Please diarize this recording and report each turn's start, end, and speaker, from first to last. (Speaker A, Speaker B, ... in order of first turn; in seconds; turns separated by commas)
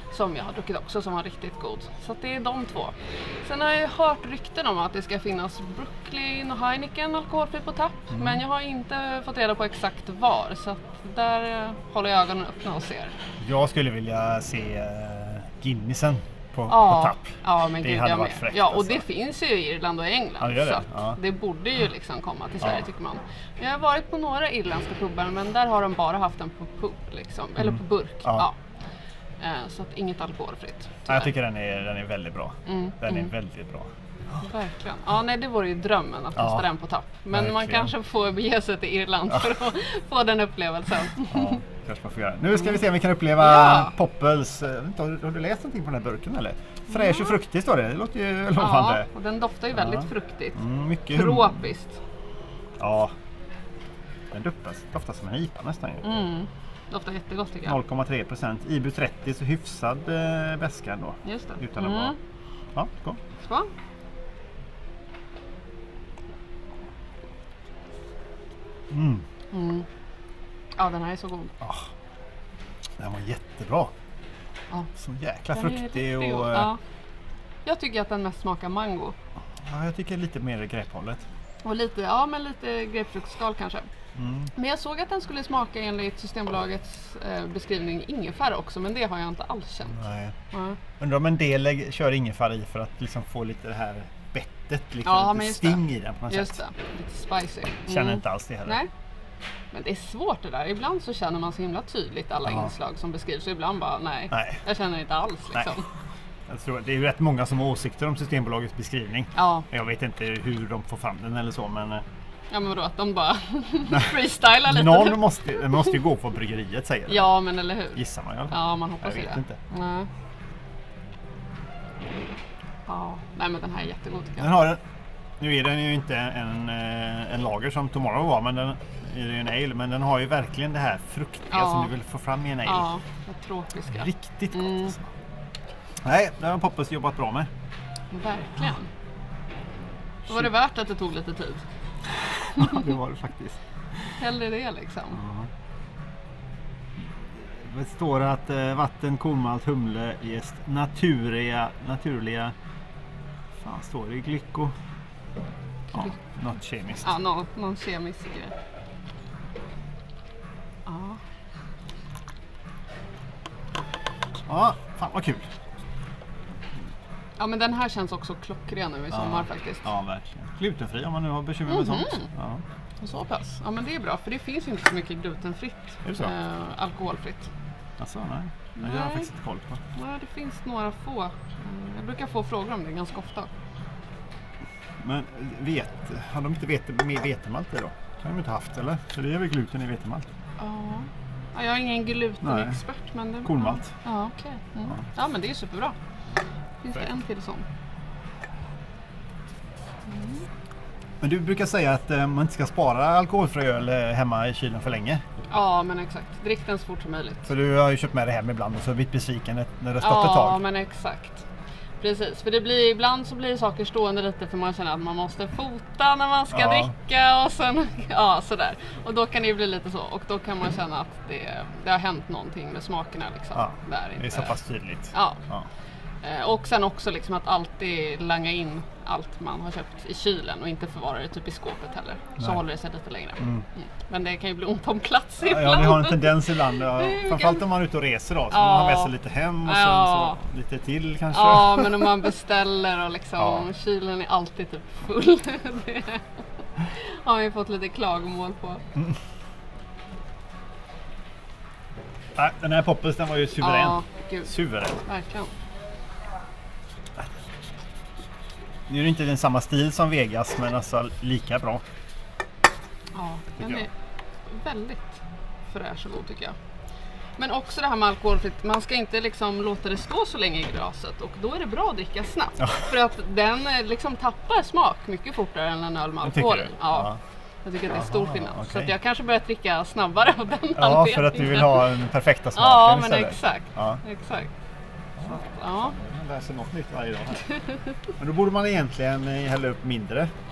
Speaker A: 0.1-13.1, Speaker B: 8.1-8.4, Speaker B: 13.4-19.0, Speaker A: 16.7-28.6, Speaker B: 20.4-21.2, Speaker B: 27.6-28.4, Speaker A: 29.4-31.3, Speaker B: 31.1-33.9, Speaker A: 32.6-33.3, Speaker A: 34.4-41.6, Speaker B: 36.4-36.7, Speaker B: 37.3-37.9, Speaker B: 41.3-49.0, Speaker A: 43.4-43.9, Speaker A: 46.9-47.3, Speaker A: 48.5-52.0, Speaker B: 49.7-51.6, Speaker B: 52.8-53.1, Speaker B: 54.3-56.1, Speaker A: 56.0-57.8, Speaker B: 57.6-62.1, Speaker A: 61.2-62.2, Speaker B: 62.7-63.2, Speaker A: 63.4-63.7, Speaker B: 68.9-69.2, Speaker A: 69.5-69.8, Speaker A: 70.8-71.5, Speaker B: 71.6-71.9, Speaker B: 73.0-73.9, Speaker B: 75.0-76.7, Speaker A: 75.5-76.8, Speaker A: 77.7-79.1, Speaker B: 79.6-81.2, Speaker A: 81.6-83.9, Speaker B: 84.2-84.5, Speaker A: 84.5-90.8, Speaker B: 89.9-90.3, Speaker B: 91.0-96.6, Speaker A: 95.0-98.9, Speaker B: 97.9-98.8, Speaker A: 99.7-105.8, Speaker B: 104.3-104.6, Speaker B: 106.5-112.0, Speaker A: 109.3-109.7, Speaker A: 112.5-116.0, Speaker B: 113.9-117.3, Speaker A: 117.1-120.1, Speaker B: 118.0-119.6, Speaker A: 122.9-124.5, Speaker B: 124.4-124.8, Speaker B: 125.4-132.8, Speaker A: 131.5-131.9, Speaker A: 132.6-134.9, Speaker B: 133.9-135.1, Speaker B: 136.0-137.5, Speaker A: 138.1-138.9, Speaker A: 140.3-141.6, Speaker B: 142.5-143.6, Speaker A: 142.5-142.9, Speaker A: 144.2-145.2, Speaker B: 145.2-145.5, Speaker B: 147.4-152.5, Speaker B: 153.6-154.7, Speaker B: 155.9-157.1, Speaker A: 157.0-158.5, Speaker A: 160.9-161.2, Speaker B: 164.5-165.5, Speaker A: 167.4-169.8, Speaker B: 169.1-172.6, Speaker A: 171.7-172.3, Speaker A: 173.0-177.5, Speaker B: 176.0-176.3, Speaker B: 178.0-179.8, Speaker A: 178.8-179.3, Speaker A: 179.9-183.5, Speaker B: 185.0-190.3, Speaker A: 190.6-195.9, Speaker B: 192.4-192.8, Speaker B: 193.4-193.9, Speaker A: 196.8-197.7, Speaker A: 200.1-200.4, Speaker B: 201.2-205.2, Speaker A: 205.5-207.5, Speaker B: 207.5-210.6, Speaker A: 210.0-211.4, Speaker A: 212.0-224.5, Speaker B: 216.5-216.9, Speaker B: 223.6-225.7, Speaker A: 225.1-225.4, Speaker A: 226.2-237.6, Speaker B: 235.4-242.3, Speaker A: 238.5-239.1, Speaker A: 239.6-240.4, Speaker A: 241.3-246.2, Speaker B: 243.4-243.6, Speaker A: 246.8-248.8, Speaker B: 252.3-255.0, Speaker A: 253.6-255.5, Speaker B: 258.9-261.8, Speaker A: 263.1-263.9, Speaker B: 263.6-263.8, Speaker A: 264.5-266.6, Speaker A: 267.4-281.9, Speaker B: 276.2-277.2, Speaker B: 277.9-278.9, Speaker B: 280.8-284.0, Speaker A: 282.5-284.5, Speaker B: 285.2-287.5, Speaker A: 285.3-285.9, Speaker B: 288.2-290.3